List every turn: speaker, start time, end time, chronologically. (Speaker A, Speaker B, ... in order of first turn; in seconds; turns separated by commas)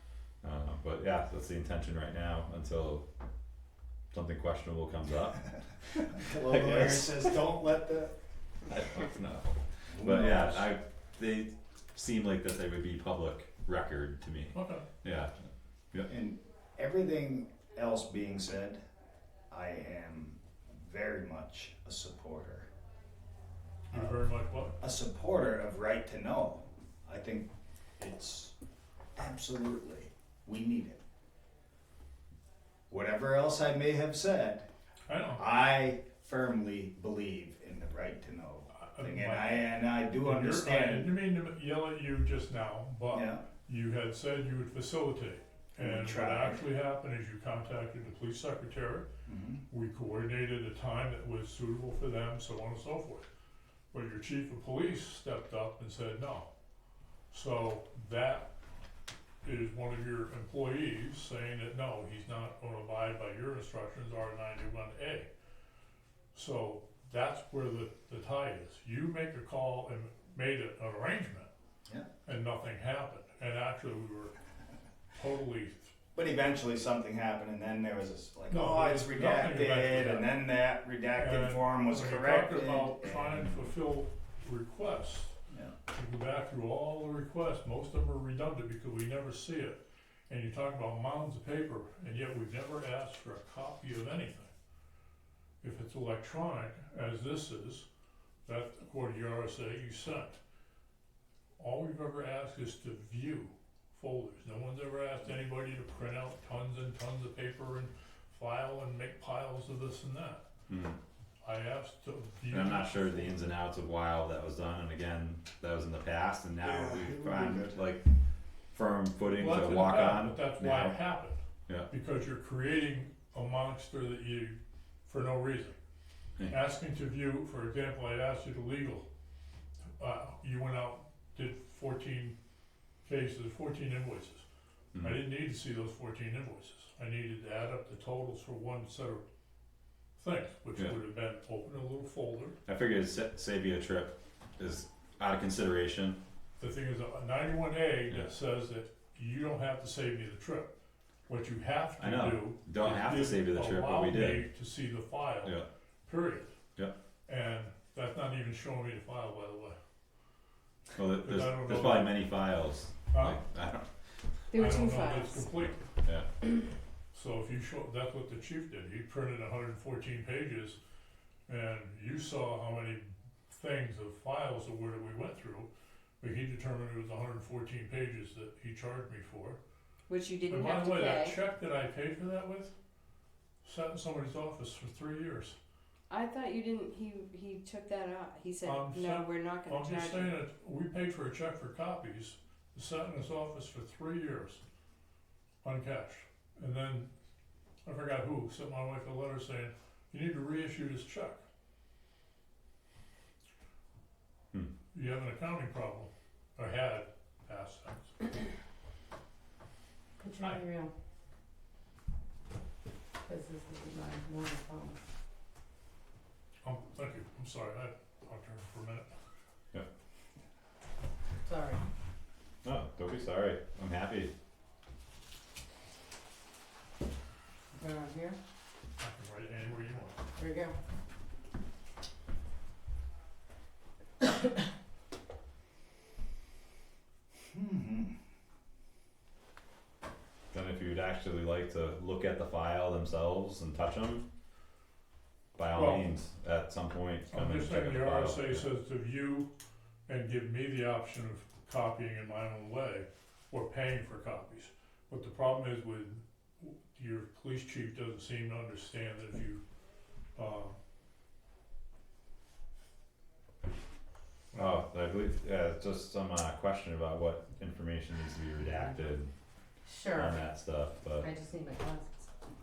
Speaker A: 0.4-3.0, Speaker A: 4.1-7.3, Speaker B: 6.0-8.1, Speaker A: 8.7-15.3, Speaker B: 9.9-10.7, Speaker C: 14.5-14.8, Speaker B: 16.1-18.8, Speaker B: 19.5-22.7, Speaker C: 23.9-24.8, Speaker B: 23.9-24.2, Speaker B: 24.8-28.5, Speaker B: 29.1-31.0, Speaker B: 32.9-34.7, Speaker C: 35.1-35.4, Speaker B: 35.3-41.1, Speaker C: 38.7-49.1, Speaker B: 43.1-43.5, Speaker B: 45.8-46.7, Speaker B: 49.2-49.6, Speaker C: 49.7-53.3, Speaker C: 53.9-56.5, Speaker C: 57.3-58.5, Speaker C: 59.4-65.3, Speaker C: 66.3-71.5, Speaker C: 72.2-74.4, Speaker C: 75.1-75.9, Speaker B: 76.1-83.5, Speaker C: 78.5-80.3, Speaker C: 81.2-85.3, Speaker B: 85.5-85.7, Speaker C: 85.9-94.5, Speaker C: 95.6-97.9, Speaker C: 98.4-100.4, Speaker C: 101.6-110.4, Speaker A: 110.7-111.0, Speaker C: 111.4-113.4, Speaker A: 112.5-118.1, Speaker B: 116.6-117.8, Speaker A: 118.7-121.0, Speaker C: 119.3-125.8, Speaker C: 126.5-129.1, Speaker C: 130.0-132.3, Speaker C: 133.0-134.4, Speaker A: 134.9-135.2, Speaker C: 135.0-139.2, Speaker C: 140.2-142.6, Speaker A: 142.7-146.2, Speaker C: 146.6-150.7, Speaker C: 151.3-156.5, Speaker A: 152.0-154.5, Speaker C: 157.3-159.8, Speaker A: 160.9-163.9, Speaker C: 161.2-162.2, Speaker C: 163.1-163.4, Speaker D: 164.5-165.5, Speaker C: 164.5-165.9, Speaker A: 166.0-166.3, Speaker C: 167.1-170.8, Speaker C: 171.5-175.7, Speaker C: 176.2-179.6, Speaker D: 180.1-181.4, Speaker C: 180.5-182.7, Speaker C: 183.6-185.6, Speaker D: 186.1-190.4, Speaker C: 188.6-194.6, Speaker C: 195.6-197.1, Speaker C: 197.8-201.4, Speaker C: 204.9-208.2, Speaker E: 210.2-210.9, Speaker E: 213.2-215.0, Speaker C: 216.6-219.1, Speaker E: 221.4-221.8, Speaker A: 222.6-224.3, Speaker E: 227.8-228.4, Speaker C: 229.0-230.2, Speaker E: 230.3-230.8, Speaker B: 237.5-238.1, Speaker A: 240.5-244.2, Speaker A: 245.6-248.7, Speaker C: 245.7-246.0, Speaker C: 247.3-249.5, Speaker C: 250.1-259.6, Speaker C: 260.4-260.8, Speaker A: 264.5-269.3, Speaker E: 269.9-270.4, Speaker A: 270.1-271.3, Speaker E: 271.2-272.3